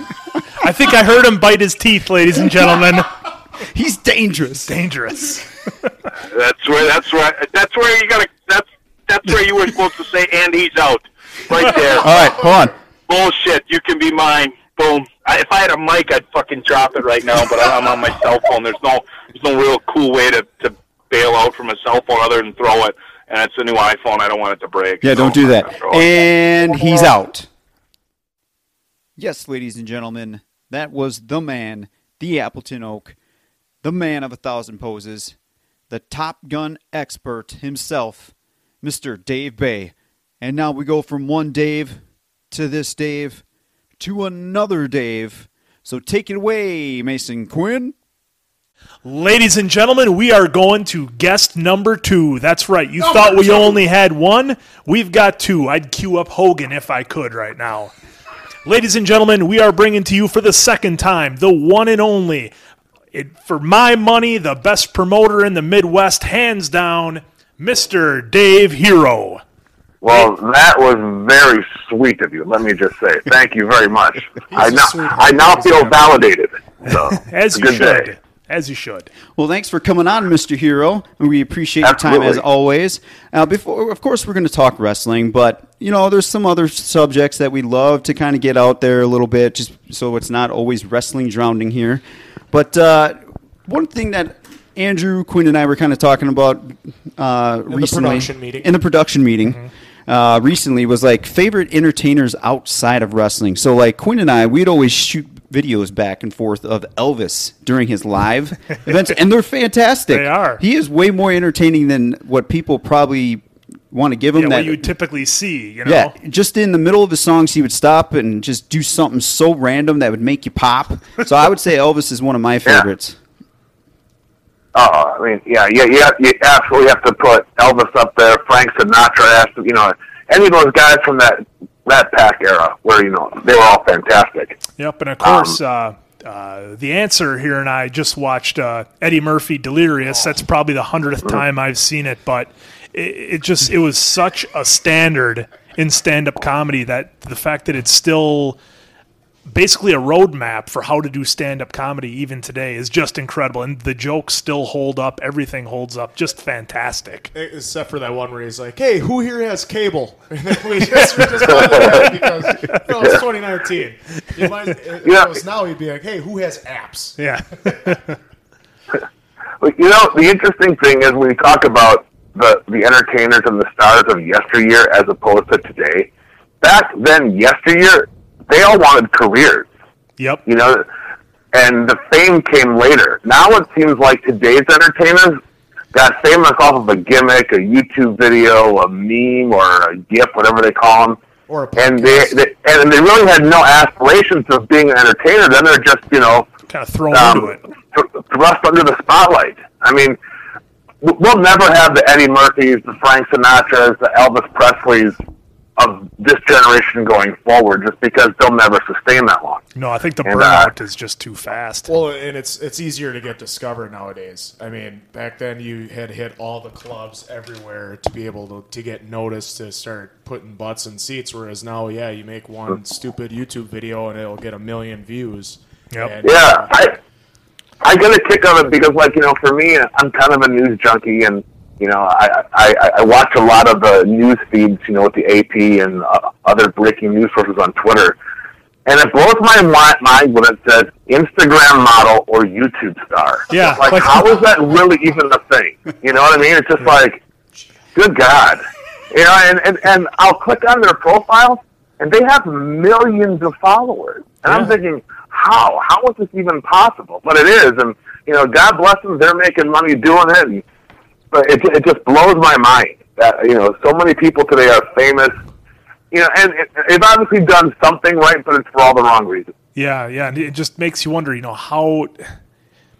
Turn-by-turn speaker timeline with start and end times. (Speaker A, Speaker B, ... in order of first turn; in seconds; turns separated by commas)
Speaker A: 0.6-3.1, Speaker B: 3.7-4.8, Speaker A: 4.7-5.4, Speaker C: 6.3-12.3, Speaker B: 12.0-12.7, Speaker C: 13.1-26.1, Speaker B: 25.0-27.5, Speaker C: 26.7-27.0, Speaker B: 29.2-33.1, Speaker B: 33.8-35.3, Speaker B: 35.9-43.4, Speaker B: 44.0-47.9, Speaker A: 49.0-57.9, Speaker D: 53.1-53.8, Speaker A: 58.6-62.5, Speaker A: 63.1-69.4, Speaker E: 70.0-78.1, Speaker D: 74.5-76.2, Speaker A: 77.1-79.1, Speaker B: 79.3-114.9, Speaker E: 81.9-82.4, Speaker D: 97.7-98.7, Speaker A: 110.1-110.6, Speaker A: 114.3-116.1, Speaker B: 115.8-123.2, Speaker E: 124.7-134.6, Speaker A: 134.8-148.6, Speaker E: 135.2-135.6, Speaker A: 149.5-157.3, Speaker D: 157.3-167.7, Speaker E: 161.6-162.1, Speaker A: 161.6-161.9, Speaker E: 165.0-165.3, Speaker A: 167.2-168.2, Speaker E: 169.6-176.1, Speaker E: 176.6-179.7, Speaker E: 180.4-180.8, Speaker E: 181.5-185.4, Speaker E: 185.9-191.2, Speaker D: 191.5-192.3, Speaker E: 191.8-196.5, Speaker A: 196.7-197.6, Speaker E: 197.1-200.2, Speaker E: 201.0-205.2, Speaker E: 205.8-209.6, Speaker A: 209.7-211.9, Speaker E: 210.2-210.7, Speaker D: 211.9-226.7, Speaker A: 225.9-226.2, Speaker E: 226.2-227.0, Speaker E: 227.8-238.2, Speaker E: 238.8-247.2, Speaker A: 243.5-244.5, Speaker E: 247.9-260.6, Speaker A: 254.5-254.7, Speaker E: 261.3-265.4, Speaker E: 266.1-269.5, Speaker A: 269.7-272.3